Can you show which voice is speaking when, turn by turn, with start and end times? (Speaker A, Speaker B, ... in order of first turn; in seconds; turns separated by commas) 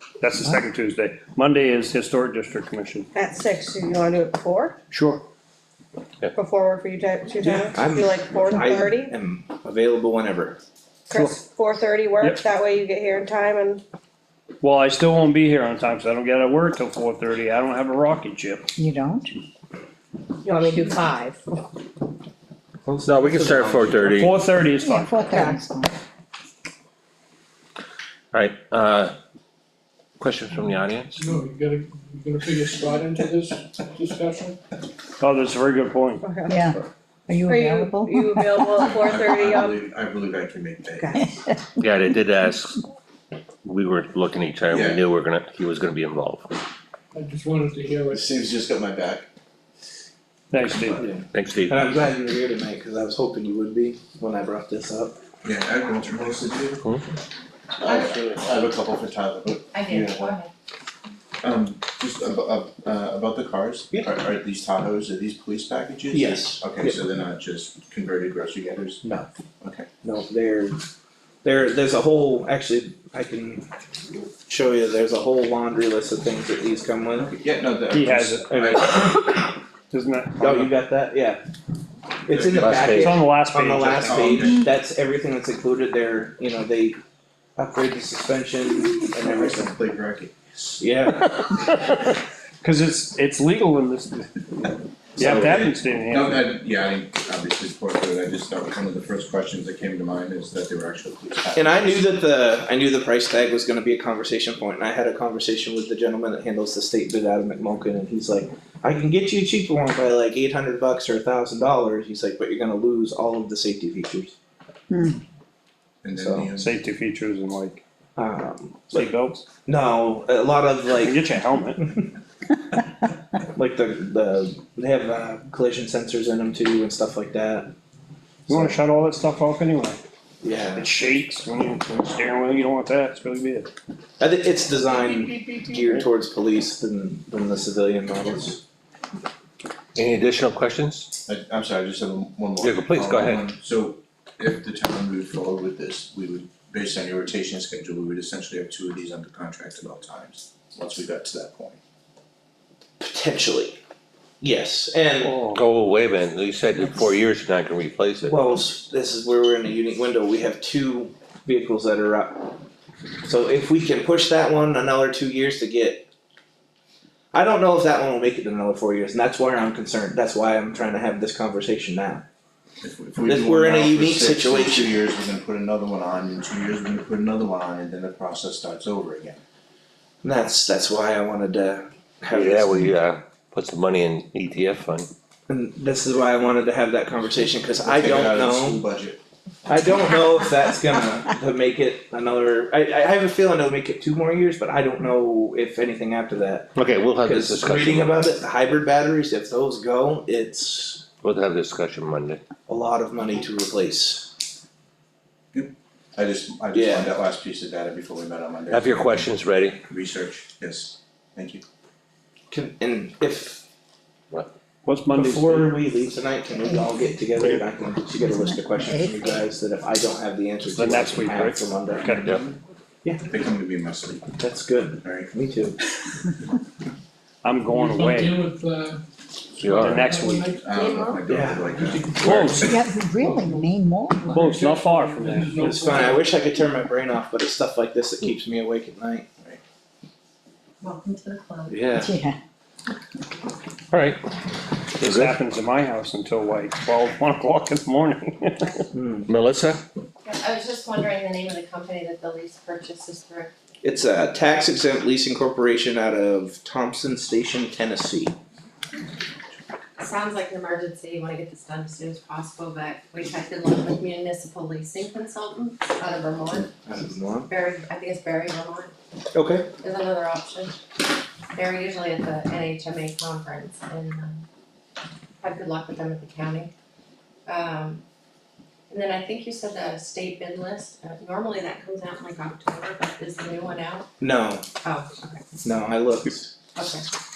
Speaker A: 0.2-3.1, Speaker B: 3.1-4.8, Speaker A: 4.9-5.2, Speaker B: 6.3-9.1, Speaker C: 7.4-10.6, Speaker B: 11.1-13.8, Speaker A: 14.6-18.7, Speaker D: 18.8-19.3, Speaker B: 20.4-21.4, Speaker D: 20.6-20.9, Speaker E: 22.9-24.4, Speaker A: 24.1-25.5, Speaker D: 24.8-25.9, Speaker E: 28.3-29.1, Speaker E: 30.2-31.2, Speaker F: 31.1-34.6, Speaker A: 35.2-36.3, Speaker B: 36.2-36.6, Speaker D: 36.5-38.7, Speaker B: 37.5-39.8, Speaker G: 38.8-41.2, Speaker D: 41.0-41.5, Speaker E: 41.8-42.8, Speaker E: 43.6-46.5, Speaker G: 44.7-45.0, Speaker F: 47.1-48.2, Speaker G: 48.1-49.2, Speaker A: 50.5-51.0, Speaker C: 50.9-55.2, Speaker E: 51.3-51.8, Speaker G: 55.4-56.9, Speaker G: 57.8-60.4, Speaker E: 58.0-58.5, Speaker H: 59.7-60.5, Speaker G: 61.4-69.0, Speaker C: 66.1-67.0, Speaker C: 69.0-69.3, Speaker G: 69.6-69.9, Speaker C: 70.0-70.8, Speaker C: 71.4-73.7, Speaker C: 74.5-77.3, Speaker G: 77.2-79.1, Speaker A: 77.9-78.5, Speaker C: 78.5-79.5, Speaker A: 79.9-80.7, Speaker C: 80.4-81.4, Speaker C: 82.3-87.0, Speaker G: 82.3-82.8, Speaker E: 82.5-83.2, Speaker A: 82.9-84.4, Speaker G: 84.0-84.6, Speaker C: 87.5-89.8, Speaker G: 89.2-90.3, Speaker C: 90.8-91.4, Speaker A: 92.6-96.5, Speaker G: 95.2-102.0, Speaker C: 101.5-114.3, Speaker D: 114.9-115.2, Speaker G: 116.0-116.7, Speaker C: 116.1-116.5, Speaker A: 116.6-117.8, Speaker C: 118.2-119.1, Speaker A: 118.9-119.4, Speaker C: 119.7-121.2, Speaker A: 121.0-121.9, Speaker C: 123.5-127.7, Speaker C: 128.5-128.8, Speaker A: 128.5-130.0, Speaker C: 130.4-130.9, Speaker A: 130.7-133.7, Speaker C: 134.2-138.6, Speaker E: 139.9-141.1, Speaker G: 141.3-151.8, Speaker E: 142.6-143.5, Speaker C: 153.0-153.8, Speaker C: 154.4-155.4, Speaker A: 155.2-155.6, Speaker E: 155.5-158.4, Speaker C: 158.2-162.6, Speaker C: 163.2-166.1, Speaker C: 167.3-172.2, Speaker G: 172.8-179.4, Speaker C: 173.2-175.0, Speaker C: 180.2-183.0, Speaker E: 182.3-185.1, Speaker C: 185.5-188.8, Speaker G: 187.8-189.2, Speaker C: 189.7-201.0, Speaker E: 196.8-198.2, Speaker E: 201.2-202.4, Speaker C: 202.7-204.3, Speaker G: 205.5-209.3, Speaker C: 206.7-207.1, Speaker E: 208.7-209.8, Speaker G: 209.9-211.6, Speaker C: 212.5-213.6, Speaker A: 214.8-215.7, Speaker C: 215.1-222.3, Speaker D: 218.2-219.4, Speaker A: 220.7-222.4, Speaker G: 223.2-224.3, Speaker C: 224.4-225.8, Speaker G: 225.0-225.3, Speaker A: 227.4-228.4, Speaker F: 227.7-229.0, Speaker E: 229.6-230.2, Speaker A: 229.7-230.5, Speaker F: 229.9-230.8, Speaker G: 230.6-232.7, Speaker B: 230.8-231.2, Speaker C: 231.2-231.7, Speaker F: 231.7-236.2, Speaker E: 232.2-232.5, Speaker A: 232.2-232.7, Speaker D: 232.6-234.3, Speaker A: 234.3-236.2, Speaker C: 235.6-239.3, Speaker H: 240.8-242.1, Speaker E: 241.7-242.1, Speaker D: 242.0-242.4, Speaker E: 243.9-244.2, Speaker E: 245.0-245.4, Speaker A: 245.0-248.8, Speaker C: 248.9-249.3, Speaker E: 249.3-249.8, Speaker H: 250.2-253.5, Speaker C: 253.8-258.4, Speaker H: 260.0-266.8, Speaker C: 266.7-267.5, Speaker H: 267.5-268.9, Speaker C: 269.3-269.7, Speaker H: 269.8-270.8, Speaker H: 271.5-274.4, Speaker H: 275.4-276.7, Speaker H: 277.4-278.0, Speaker H: 278.9-284.1, Speaker C: 284.2-284.6, Speaker H: 284.8-285.6, Speaker C: 285.6-286.5, Speaker H: 286.7-287.0